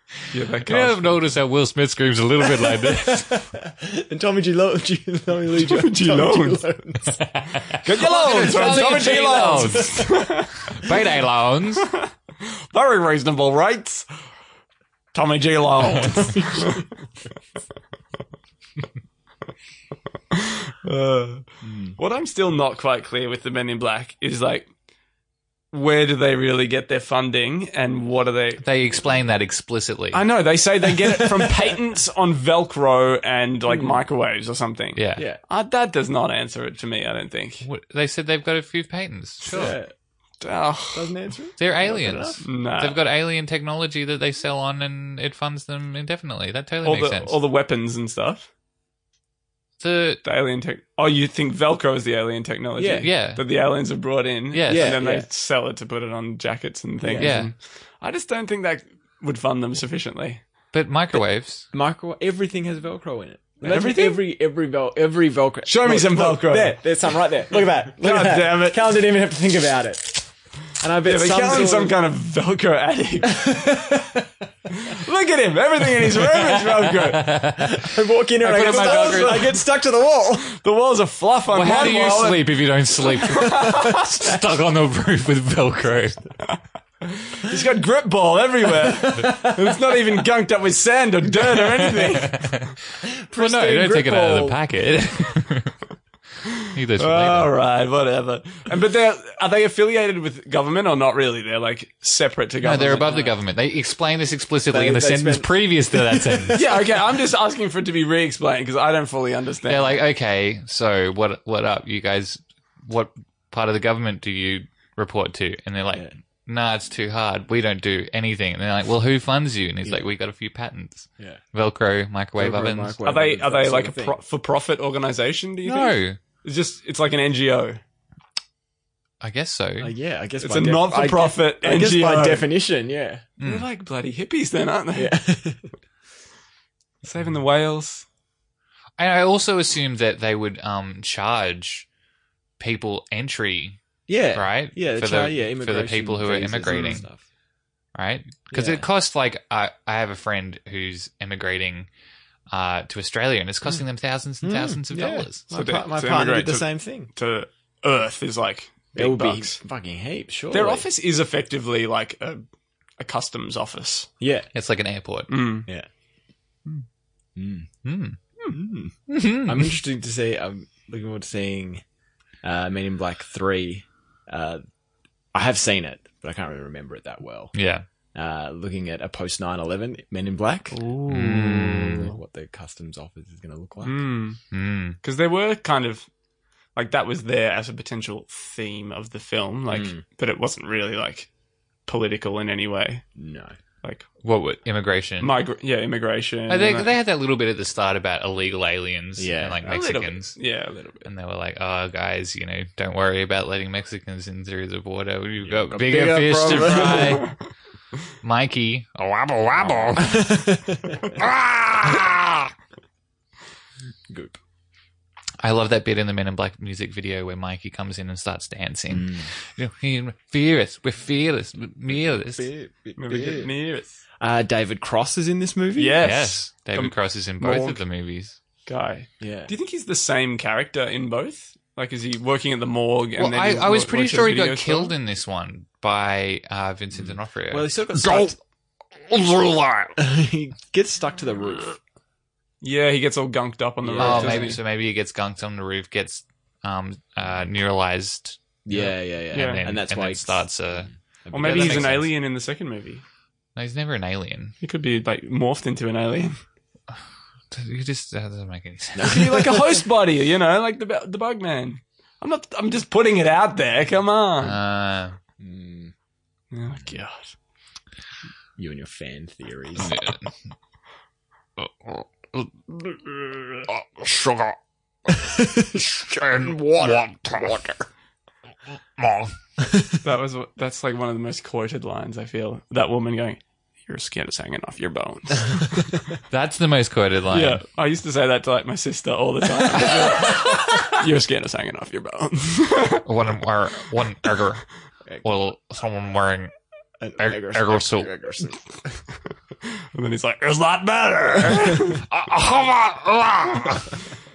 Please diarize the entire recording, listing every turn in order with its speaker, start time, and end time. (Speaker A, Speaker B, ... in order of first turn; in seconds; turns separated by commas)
Speaker A: 0.3-1.3, Speaker B: 0.6-3.4, Speaker C: 2.4-10.3, Speaker A: 5.6-6.6, Speaker B: 7.1-11.9, Speaker A: 7.8-10.9, Speaker A: 11.8-12.1, Speaker A: 12.7-14.1, Speaker A: 15.1-16.9, Speaker B: 15.8-16.1, Speaker C: 16.0-16.9, Speaker A: 20.3-24.7, Speaker C: 21.6-21.9, Speaker A: 25.7-28.6, Speaker B: 28.6-30.2, Speaker A: 30.1-37.7, Speaker C: 31.2-31.4, Speaker C: 33.7-34.0, Speaker B: 35.0-35.2, Speaker C: 35.2-35.4, Speaker B: 37.6-39.8, Speaker C: 39.4-39.9, Speaker A: 40.4-41.2, Speaker C: 40.9-42.5, Speaker B: 41.6-47.4, Speaker A: 42.4-43.0, Speaker A: 46.8-48.5, Speaker B: 49.8-50.2, Speaker A: 50.2-60.4, Speaker C: 52.8-53.1, Speaker B: 53.0-53.4, Speaker B: 54.5-55.0, Speaker C: 54.7-55.3, Speaker C: 57.0-57.4, Speaker B: 57.2-57.5, Speaker B: 60.7-61.7, Speaker C: 61.7-72.0, Speaker A: 63.6-64.2, Speaker A: 65.7-66.9, Speaker A: 67.5-68.8, Speaker A: 71.0-73.6, Speaker C: 73.2-74.3, Speaker A: 74.9-77.3, Speaker B: 76.2-79.5, Speaker C: 76.7-80.5, Speaker A: 78.6-79.5, Speaker A: 80.5-84.2, Speaker B: 81.5-86.2, Speaker C: 83.8-84.3, Speaker A: 86.6-92.5, Speaker C: 89.1-89.8, Speaker B: 91.5-92.7, Speaker C: 93.0-94.6, Speaker B: 93.3-95.8, Speaker A: 96.6-103.2, Speaker B: 96.7-97.5, Speaker B: 102.6-106.6, Speaker C: 103.0-103.3, Speaker C: 104.7-106.8, Speaker A: 106.5-110.0, Speaker B: 109.7-123.0, Speaker C: 122.4-124.2, Speaker A: 123.0-127.8, Speaker B: 125.6-126.2, Speaker B: 129.2-129.9, Speaker C: 129.8-133.3, Speaker A: 130.4-132.5, Speaker B: 133.4-133.7, Speaker A: 133.4-135.2, Speaker C: 134.9-135.7, Speaker A: 137.0-138.1, Speaker B: 139.0-141.9, Speaker B: 142.6-143.8, Speaker C: 144.1-147.2, Speaker B: 144.3-147.1, Speaker A: 146.7-147.0, Speaker B: 147.9-151.9, Speaker C: 148.5-148.9, Speaker B: 152.5-155.4, Speaker C: 154.4-157.1, Speaker A: 155.5-159.6, Speaker C: 158.9-160.9, Speaker A: 160.5-162.4, Speaker A: 163.0-164.1, Speaker C: 164.2-164.5, Speaker B: 164.5-165.4, Speaker A: 165.3-165.7, Speaker C: 167.4-167.7, Speaker B: 167.8-168.2, Speaker C: 168.5-171.8, Speaker B: 169.1-169.8, Speaker C: 172.4-174.6, Speaker C: 175.3-177.5, Speaker B: 177.5-177.8, Speaker C: 178.1-180.8, Speaker A: 180.7-182.0, Speaker B: 181.1-182.1, Speaker C: 181.7-184.0, Speaker A: 183.8-184.4, Speaker B: 184.5-185.0, Speaker A: 185.0-186.1, Speaker A: 186.8-191.3, Speaker C: 189.7-190.0, Speaker A: 191.9-193.1, Speaker C: 193.2-193.5, Speaker B: 194.2-195.4, Speaker A: 195.2-196.9, Speaker B: 196.5-200.4, Speaker C: 199.2-199.7, Speaker A: 199.6-201.1, Speaker B: 201.0-207.3, Speaker C: 205.4-207.2, Speaker A: 206.8-207.3, Speaker B: 208.2-210.4, Speaker C: 209.6-211.2, Speaker B: 211.1-212.5, Speaker C: 214.1-214.4, Speaker B: 215.4-222.5, Speaker C: 218.9-219.3, Speaker C: 221.9-223.5, Speaker A: 223.0-224.0, Speaker C: 224.2-226.0, Speaker A: 225.8-227.8, Speaker B: 226.0-228.4, Speaker A: 228.7-234.9, Speaker C: 229.2-229.5, Speaker B: 233.2-238.3, Speaker C: 237.0-238.4, Speaker B: 239.0-240.0, Speaker C: 240.0-241.8, Speaker A: 242.6-244.6, Speaker C: 243.8-244.6, Speaker B: 244.0-252.1, Speaker C: 248.7-252.1, Speaker A: 249.3-249.7, Speaker A: 251.3-253.0, Speaker B: 253.6-254.6, Speaker A: 254.6-256.4, Speaker B: 257.5-259.5, Speaker C: 259.0-259.8, Speaker A: 259.0-264.6, Speaker B: 264.4-265.2, Speaker C: 265.4-265.9, Speaker A: 266.5-267.3, Speaker C: 268.6-270.0, Speaker B: 269.8-270.3, Speaker B: 271.6-274.6, Speaker C: 275.1-277.1, Speaker B: 275.7-277.8, Speaker B: 279.0-279.4, Speaker C: 279.6-279.9, Speaker A: 280.0-286.1, Speaker B: 286.3-287.6, Speaker A: 287.3-293.1, Speaker B: 293.0-294.6, Speaker B: 295.2-296.5, Speaker C: 297.0-298.7, Speaker B: 297.2-298.1, Speaker A: 299.8-302.1, Speaker B: 302.0-304.0